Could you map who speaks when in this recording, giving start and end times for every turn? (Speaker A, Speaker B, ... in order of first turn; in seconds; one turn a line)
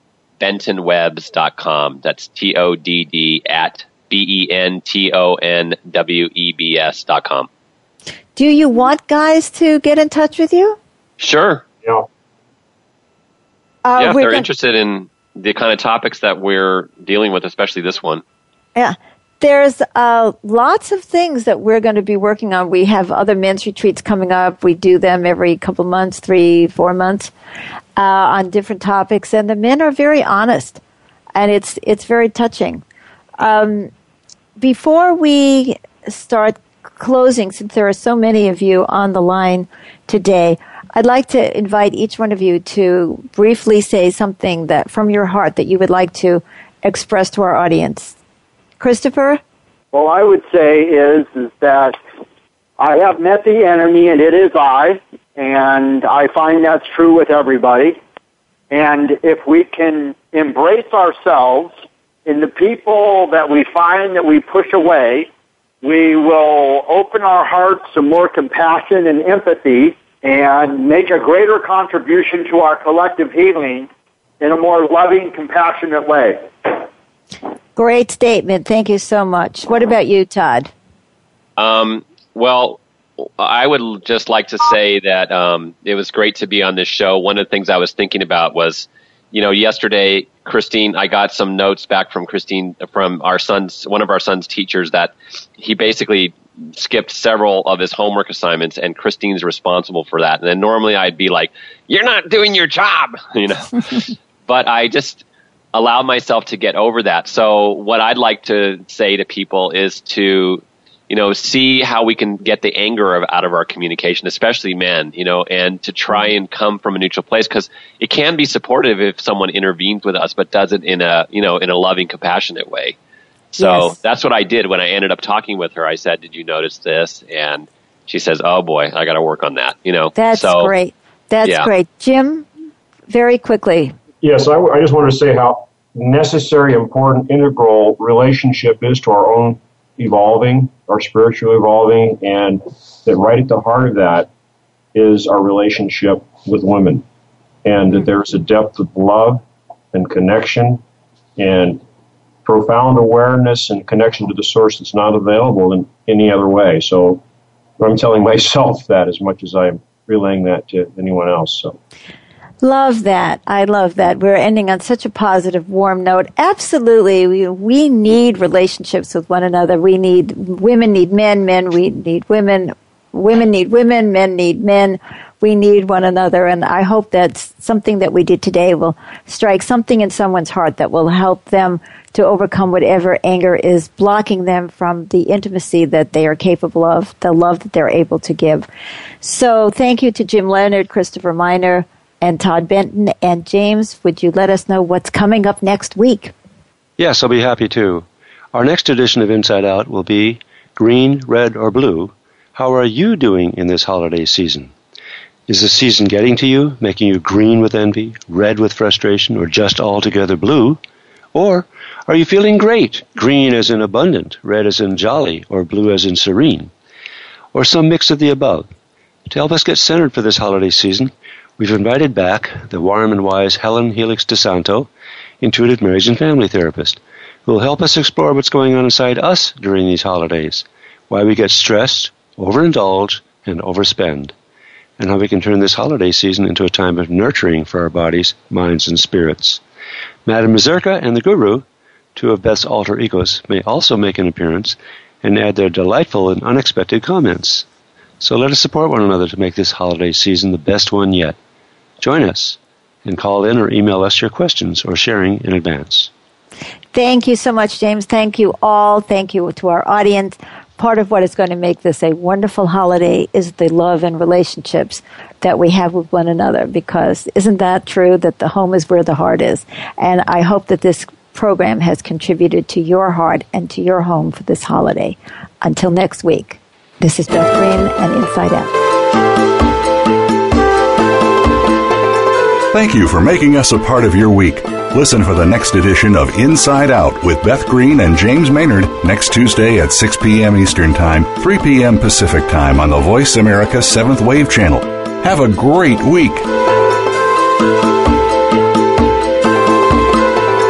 Speaker A: 0.4-7.5
Speaker B: 8.4-10.8
Speaker A: 11.2-11.6
Speaker B: 13.8-14.5
Speaker A: 14.0-18.2
Speaker B: 18.8-27.3
Speaker B: 28.0-30.8
Speaker B: 31.4-32.8
Speaker B: 33.4-33.9
Speaker B: 34.6-48.2
Speaker B: 48.8-49.4
Speaker C: 49.9-52.0
Speaker C: 52.8-58.0
Speaker C: 58.7-61.7
Speaker C: 62.3-65.3
Speaker C: 65.8-73.9
Speaker C: 74.4-76.5
Speaker B: 77.8-80.7
Speaker A: 81.6-123.0
Speaker A: 123.6-130.7
Speaker B: 123.6-124.0
Speaker B: 130.2-132.5
Speaker A: 131.4-131.7
Speaker B: 133.1-133.9
Speaker D: 134.2-144.3
Speaker D: 144.9-147.0
Speaker D: 147.7-150.8
Speaker D: 151.4-151.8
Speaker D: 152.4-157.2
Speaker D: 157.8-161.8
Speaker B: 162.6-188.7
Speaker B: 189.2-196.3
Speaker E: 197.0-204.7
Speaker E: 205.5-210.8
Speaker E: 211.3-216.7
Speaker E: 217.5-218.7
Speaker E: 219.3-224.9
Speaker E: 225.4-234.3
Speaker E: 235.0-239.6
Speaker E: 240.3-247.7
Speaker E: 248.2-251.4
Speaker E: 252.0-256.1
Speaker B: 256.9-278.7
Speaker F: 282.7-296.5